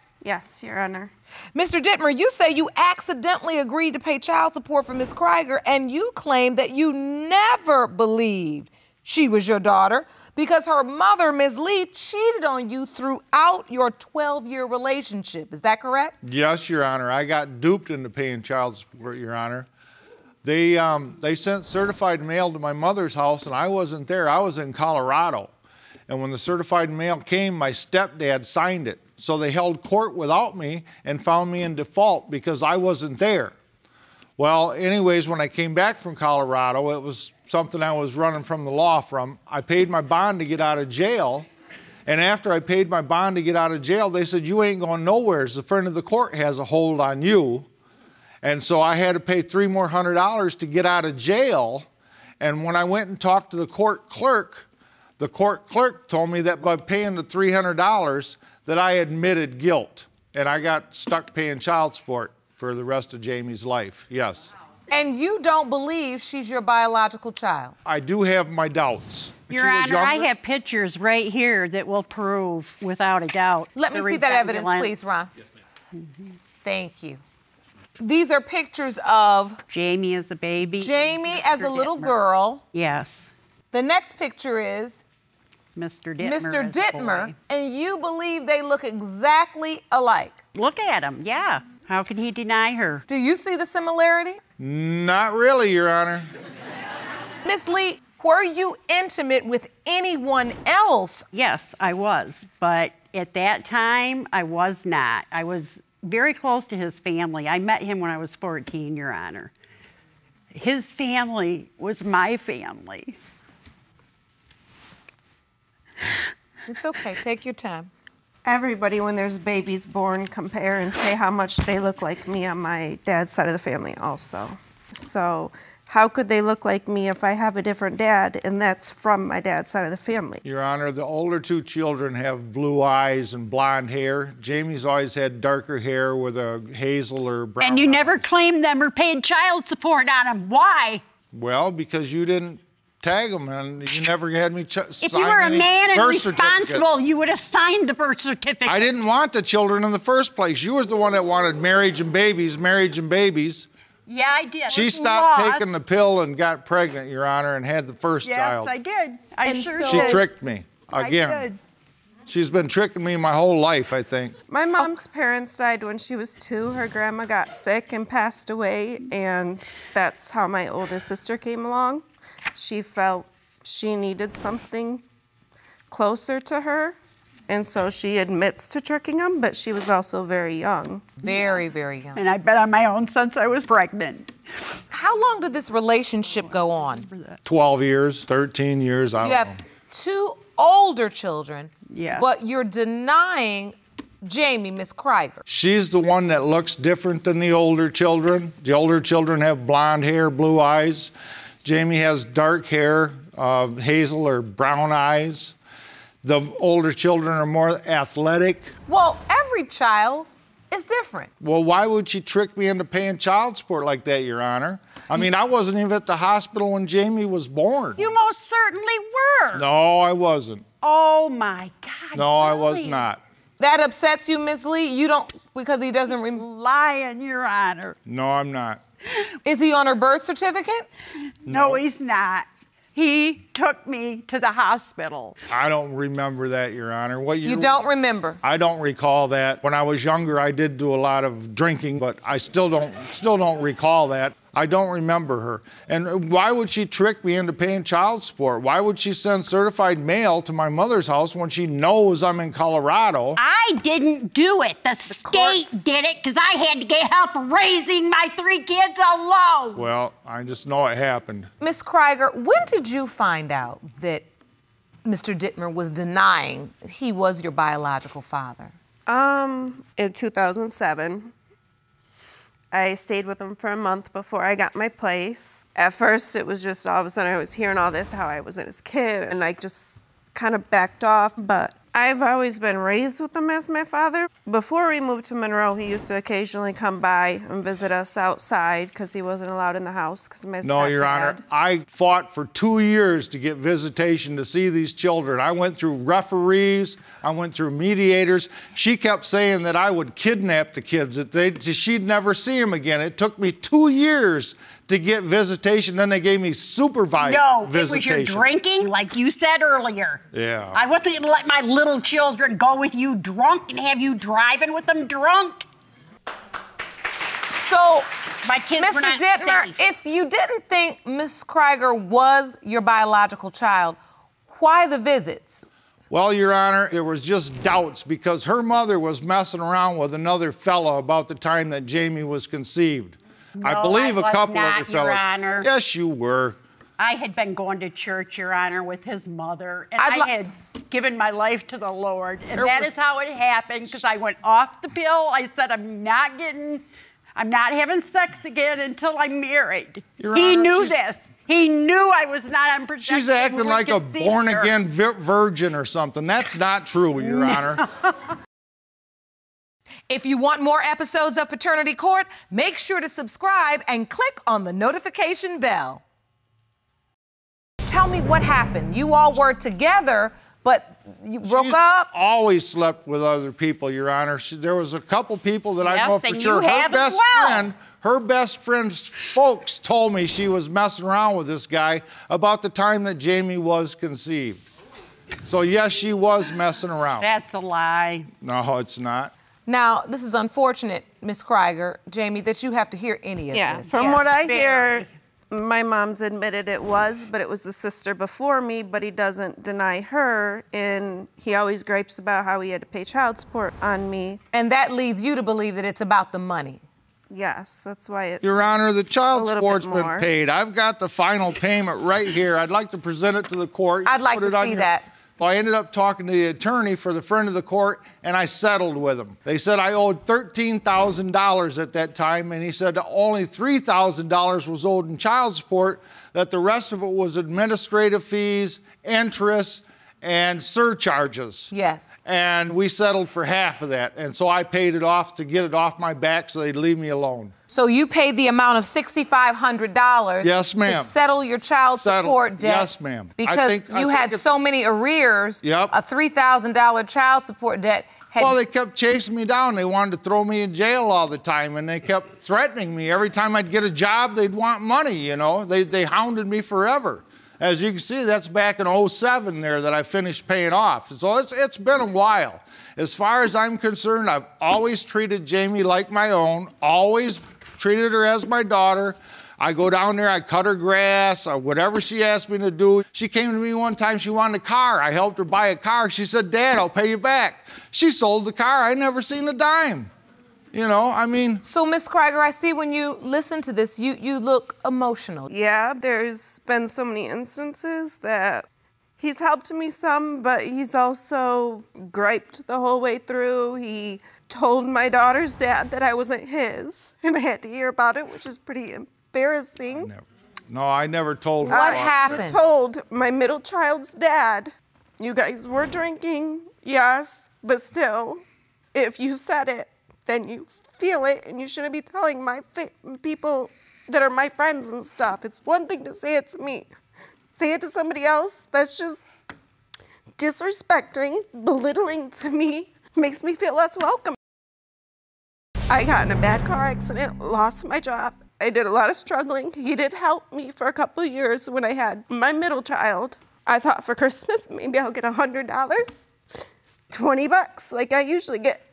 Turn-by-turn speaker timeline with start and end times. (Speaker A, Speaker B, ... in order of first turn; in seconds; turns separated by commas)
Speaker A: 0.2-1.1, Speaker B: 1.6-16.1, Speaker C: 16.2-19.7, Speaker C: 20.4-25.5, Speaker C: 26.1-33.5, Speaker C: 34.4-41.5, Speaker C: 42.1-47.7, Speaker C: 48.4-51.9, Speaker C: 52.4-54.7, Speaker C: 55.2-64.5, Speaker B: 64.9-67.8, Speaker C: 67.8-70.3, Speaker D: 69.5-74.9, Speaker B: 73.8-75.3, Speaker D: 76.0-76.2, Speaker B: 76.6-77.2, Speaker B: 78.0-79.6, Speaker D: 79.7-82.1, Speaker B: 80.8-82.6, Speaker D: 82.7-83.3, Speaker B: 83.7-85.0, Speaker D: 85.8-87.3, Speaker B: 86.2-90.4, Speaker D: 90.5-93.0, Speaker B: 93.1-94.4, Speaker C: 94.6-96.3, Speaker B: 97.4-101.3, Speaker D: 101.3-109.5, Speaker D: 110.5-113.2, Speaker B: 116.7-117.9, Speaker A: 118.5-130.4, Speaker C: 130.4-138.2, Speaker D: 137.6-141.0, Speaker C: 141.3-146.9, Speaker D: 145.0-149.0, Speaker C: 148.7-153.7, Speaker D: 154.1-155.8, Speaker C: 154.7-158.7, Speaker D: 158.2-160.3, Speaker B: 159.4-160.2, Speaker C: 159.9-161.4, Speaker D: 160.9-161.6, Speaker C: 162.3-164.4, Speaker A: 164.5-175.0, Speaker A: 175.9-177.0, Speaker A: 177.5-181.2, Speaker B: 181.2-182.2, Speaker D: 182.2-184.3, Speaker B: 184.9-187.1, Speaker D: 187.1-187.4, Speaker C: 187.4-189.6, Speaker B: 189.2-195.4, Speaker D: 191.9-192.3, Speaker C: 195.5-201.1, Speaker C: 201.6-205.6, Speaker C: 206.2-208.7, Speaker B: 208.9-211.3, Speaker C: 211.4-218.1, Speaker D: 218.0-219.7, Speaker C: 219.6-220.7, Speaker D: 220.8-223.1, Speaker C: 222.2-223.2, Speaker B: 223.6-226.4, Speaker D: 226.3-228.0, Speaker C: 228.1-228.8, Speaker B: 229.4-230.9, Speaker D: 231.4-235.4, Speaker C: 231.5-231.8, Speaker C: 235.5-237.7, Speaker B: 237.4-238.4, Speaker C: 238.4-253.4, Speaker D: 253.4-259.9, Speaker C: 259.8-261.5, Speaker B: 261.6-264.3, Speaker B: 265.1-268.8, Speaker A: 269.1-271.3, Speaker A: 272.7-291.4, Speaker C: 290.6-308.5, Speaker D: 307.2-315.7, Speaker C: 310.3-310.8, Speaker B: 317.5-318.1, Speaker D: 318.4-319.8, Speaker B: 318.8-324.0, Speaker B: 324.5-325.6, Speaker C: 326.1-336.6, Speaker D: 333.6-335.7, Speaker D: 337.0-354.8, Speaker B: 340.0-340.3, Speaker C: 342.5-342.9, Speaker C: 350.2-351.0, Speaker C: 353.1-357.8, Speaker D: 357.2-358.1, Speaker B: 360.1-366.0, Speaker B: 367.9-372.1, Speaker C: 371.4-384.6, Speaker D: 375.8-377.7, Speaker C: 385.4-387.3, Speaker D: 387.2-388.3, Speaker C: 388.4-389.3, Speaker B: 389.7-394.0, Speaker D: 393.6-395.0, Speaker A: 393.9-404.4, Speaker B: 404.5-406.8, Speaker A: 407.3-408.5, Speaker C: 408.4-431.7, Speaker A: 409.3-410.3, Speaker B: 414.1-415.1, Speaker B: 431.7-432.1, Speaker C: 432.2-437.5, Speaker B: 437.7-448.6, Speaker C: 440.4-441.1, Speaker C: 442.0-444.4, Speaker C: 445.6-445.9, Speaker C: 448.4-480.1, Speaker C: 480.7-481.6, Speaker B: 481.6-485.5, Speaker A: 485.5-488.7, Speaker A: 489.2-500.1, Speaker C: 499.9-502.4, Speaker B: 501.7-502.6, Speaker A: 501.7-508.4, Speaker A: 508.9-516.9, Speaker A: 517.5-519.3, Speaker A: 520.4-524.4, Speaker A: 525.9-536.3, Speaker A: 537.1-538.8